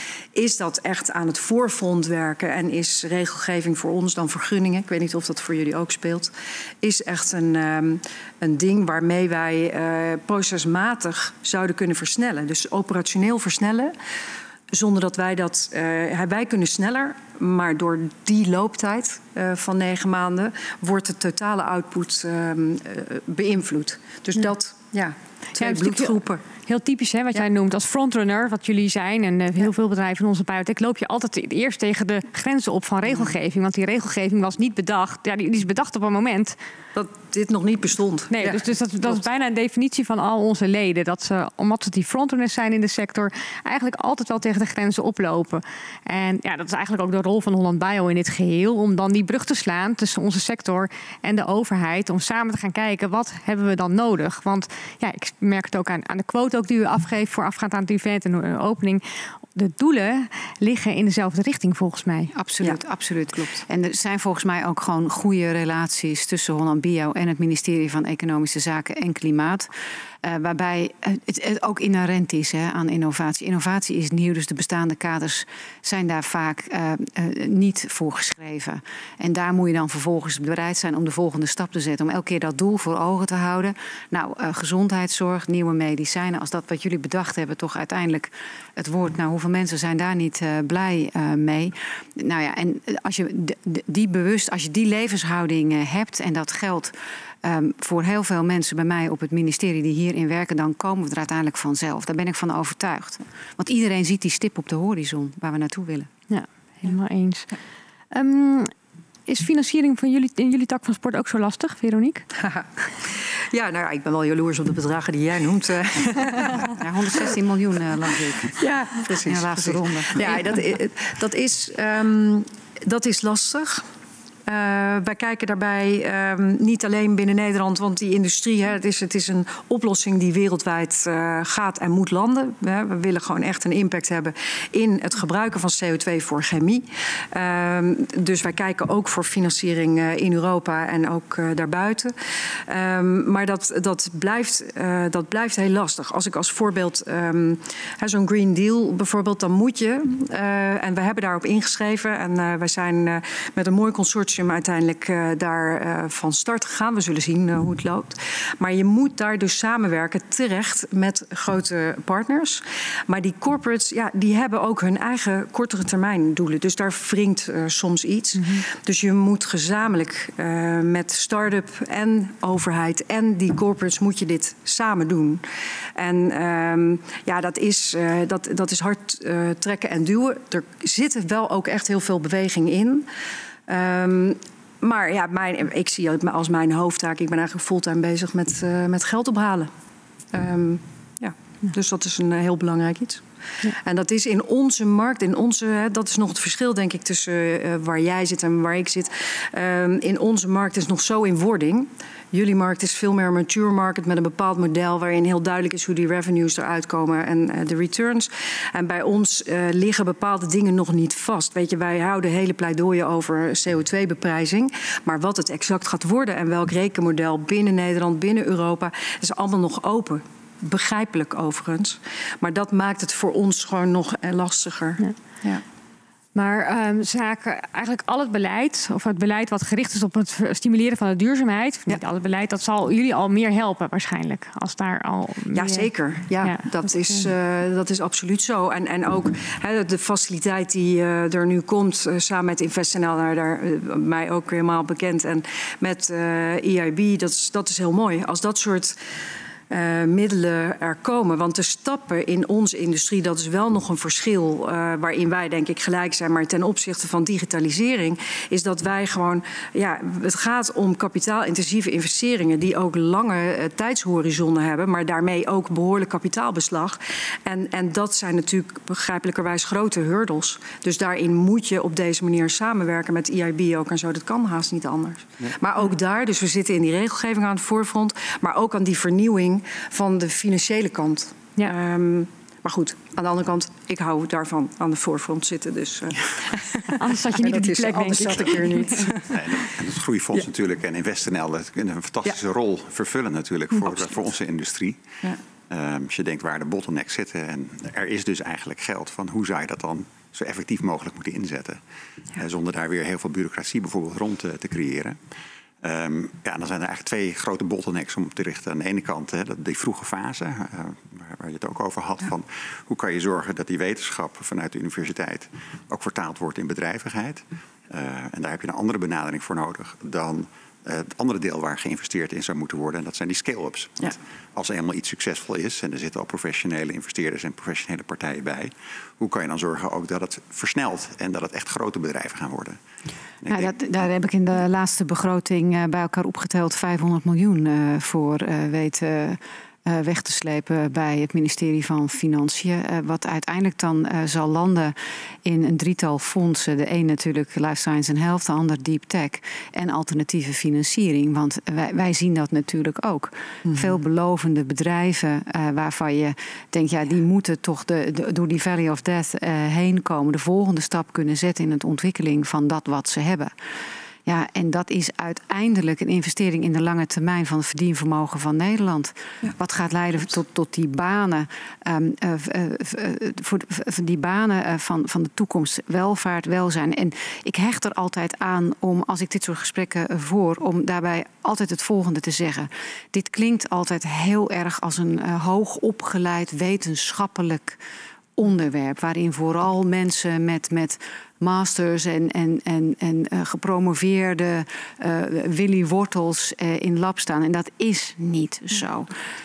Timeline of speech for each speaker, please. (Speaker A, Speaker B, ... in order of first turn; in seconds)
Speaker A: 0.3-13.9, 14.7-26.4, 37.0-39.2, 112.4-116.7, 118.6-123.8, 124.5-142.1, 142.7-175.4, 175.9-183.1, 183.7-189.7, 190.3-225.6, 235.5-249.0, 249.7-289.8, 293.8-294.1, 353.7-353.9
Speaker B: 25.6-36.6, 38.3-59.0, 59.5-62.3, 106.3-107.5, 108.1-108.7, 109.3-112.2, 168.3-168.7, 226.3-237.3, 286.9-289.1
Speaker C: 62.3-69.7, 70.2-106.1, 116.8-120.5, 333.5-363.5, 364.3-387.8, 388.4-399.1
Speaker D: 289.3-301.8, 302.3-332.8, 333.4-333.7